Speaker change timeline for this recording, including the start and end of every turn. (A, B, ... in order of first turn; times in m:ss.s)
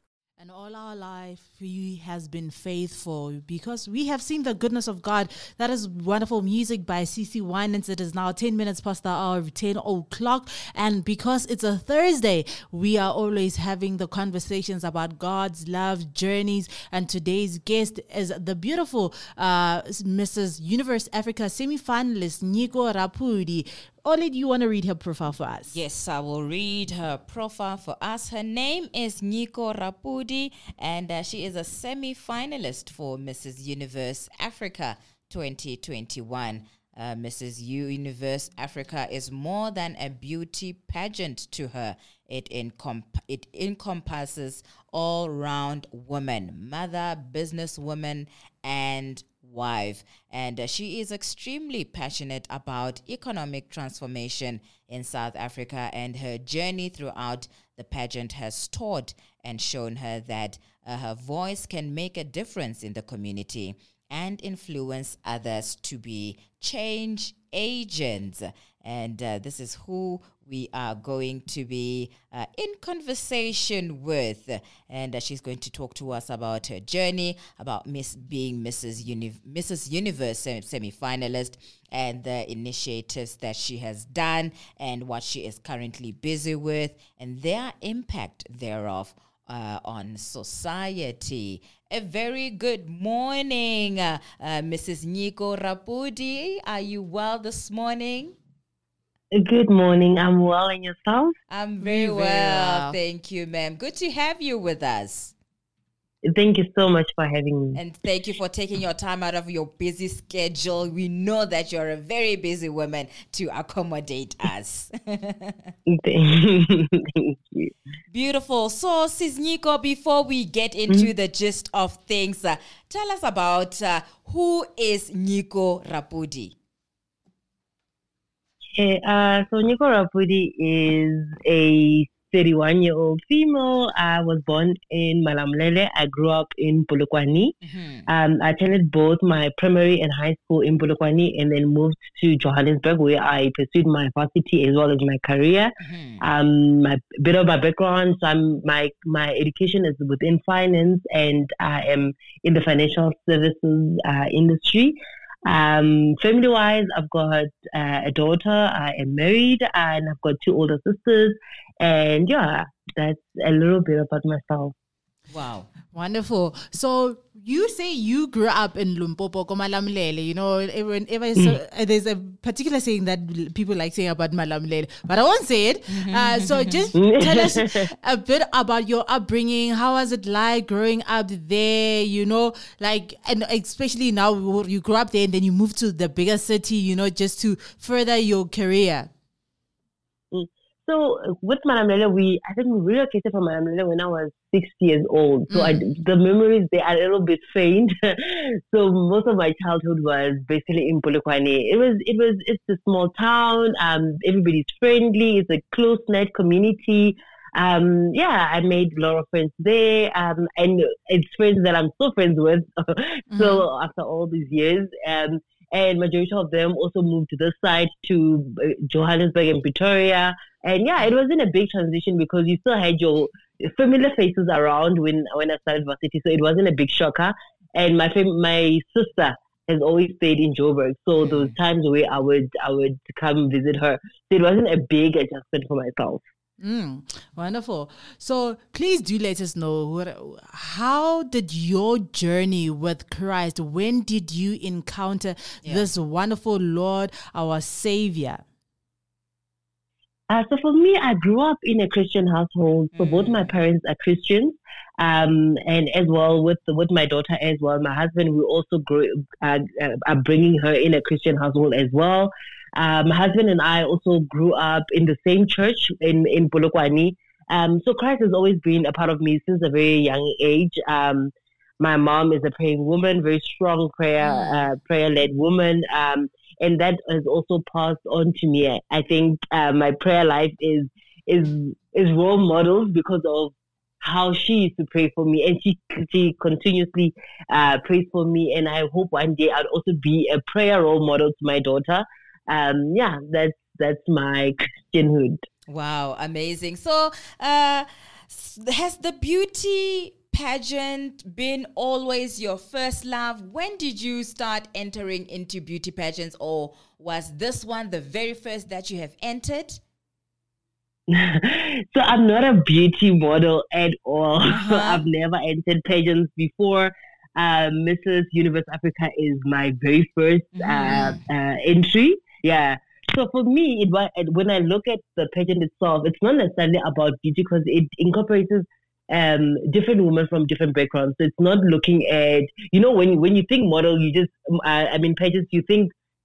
0:00.4-0:25.7 A
0:25.7-1:38.4 B
1:39.3-1:41.3 C
1:41.5-1:45.3 B
1:41.8-1:43.0 A
1:46.2-1:47.8 C
1:47.7-1:55.7 B
1:55.9-1:57.7 C
1:58.1-2:06.5 B
2:08.8-2:17.6 C
2:17.6-2:18.1 B
2:18.1-2:44.7 C
2:25.8-2:26.2 B
2:45.3-2:45.7 B
2:45.9-3:09.1 A
2:55.9-2:56.9 B
2:57.0-2:57.9 C
3:10.3-3:56.2 C
3:33.3-3:33.6 A
3:51.2-3:51.5 B
3:56.6-4:08.4 A
4:10.3-4:55.4 C
4:12.9-4:13.5 B
4:34.2-4:34.7 B
4:55.7-5:09.8 B
5:11.1-5:35.9 C
5:14.5-5:15.0 B
5:20.6-5:21.2 B